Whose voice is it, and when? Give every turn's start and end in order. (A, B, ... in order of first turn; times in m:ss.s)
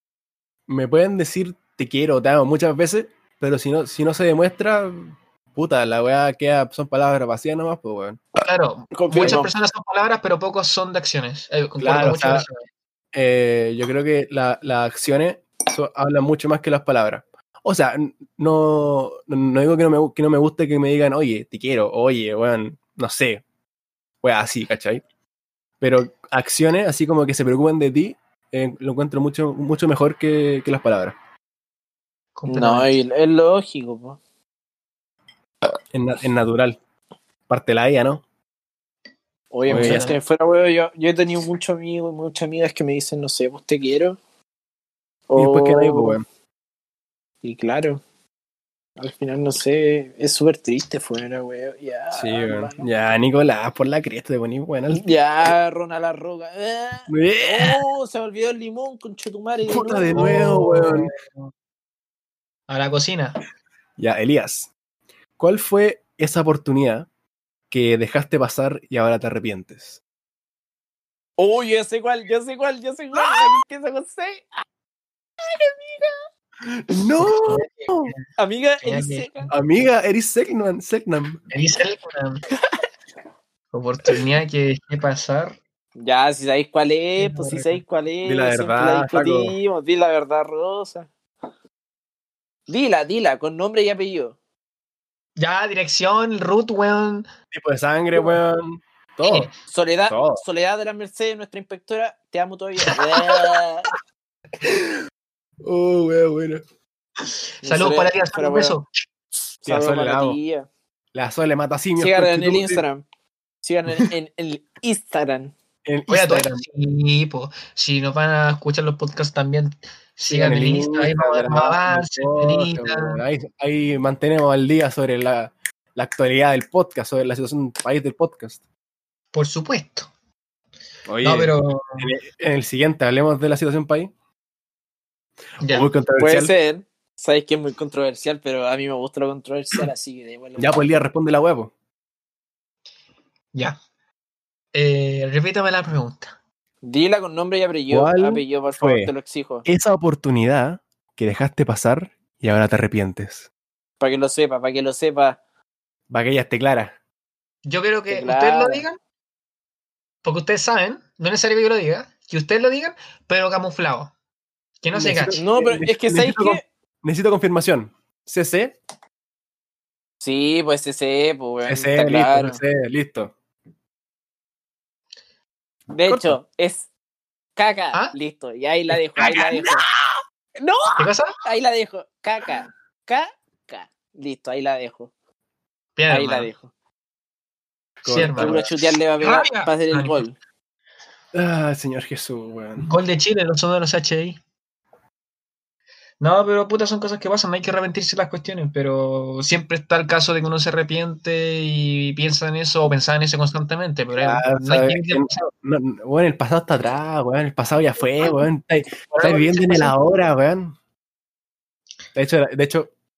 0:00.7-0:08.2 A
0:08.4-0:12.6 B
0:08.9-0:09.5 C
0:11.8-0:12.5 A
0:13.1-0:23.4 A
0:24.2-0:25.0 A
0:25.8-0:31.1 A
0:32.3-0:32.9 B
0:32.5-0:34.2 C
0:35.9-0:36.8 A
0:37.5-0:38.2 A
0:39.5-0:44.2 C
0:39.7-0:40.1 A
0:39.7-0:40.2 B
0:45.3-0:46.2 C
0:45.3-0:46.2 A
0:47.4-0:48.0 C
0:49.0-0:52.9 C
0:52.1-0:55.0 A
0:54.9-1:00.7 C
0:57.1-0:57.8 A
0:59.7-1:01.1 A
1:00.1-1:01.1 B
1:02.7-1:03.4 B
1:04.0-1:04.7 A
1:05.4-1:07.1 A
1:07.7-1:10.0 A
1:11.4-1:14.4 C
1:15.4-1:16.1 C
1:16.7-1:18.1 A
1:17.2-1:18.2 B
1:18.4-1:19.5 C
1:18.8-1:19.5 B
1:19.5-1:21.4 A
1:21.5-1:22.4 B
1:23.7-1:25.6 B
1:26.0-1:31.1 C
1:27.2-1:27.8 B
1:28.2-1:29.6 A
1:32.7-1:34.4 C
1:35.4-1:37.3 B
1:37.5-1:39.5 A
1:39.2-1:39.5 B
1:39.6-1:43.9 C
1:40.1-1:40.4 A
1:45.6-1:46.6 A
1:47.6-1:48.8 C
1:47.6-1:48.9 B
1:49.6-1:50.7 C
1:49.6-1:50.4 A
1:51.1-1:52.8 A
1:52.0-1:53.0 C
1:53.6-1:55.5 C
1:55.8-1:56.6 A
1:56.1-2:03.2 B
2:00.3-2:08.6 A
2:09.3-2:10.1 B
2:11.1-2:14.1 A
2:11.2-2:12.1 B
2:15.6-2:15.9 B
2:15.6-2:16.5 A
2:16.2-2:20.9 C
2:20.6-2:21.7 A
2:24.7-2:26.3 B
2:26.8-2:29.6 C
2:27.9-2:29.1 A
2:29.6-2:33.5 A
2:34.0-2:35.4 C
2:36.1-2:36.9 A
2:37.6-2:39.0 B
2:38.1-2:38.8 C
2:40.2-2:44.1 B
2:44.8-2:45.4 B
2:44.9-2:48.8 A
2:45.3-2:46.6 C
2:50.2-2:52.6 C
2:51.6-2:53.3 A
2:55.9-2:56.9 C
2:56.0-2:56.4 A
2:57.6-2:59.8 C
2:58.9-3:00.2 A
3:01.0-3:01.4 B
3:01.4-3:05.1 C
3:06.0-3:06.5 B
3:06.1-3:06.7 C
3:08.0-3:08.7 A
3:08.0-3:10.2 B
3:08.4-3:10.4 C
3:11.3-3:12.9 A
3:12.8-3:14.4 B
3:16.2-3:25.4 B
3:24.2-3:30.8 A
3:29.1-3:29.9 B
3:32.1-3:32.9 A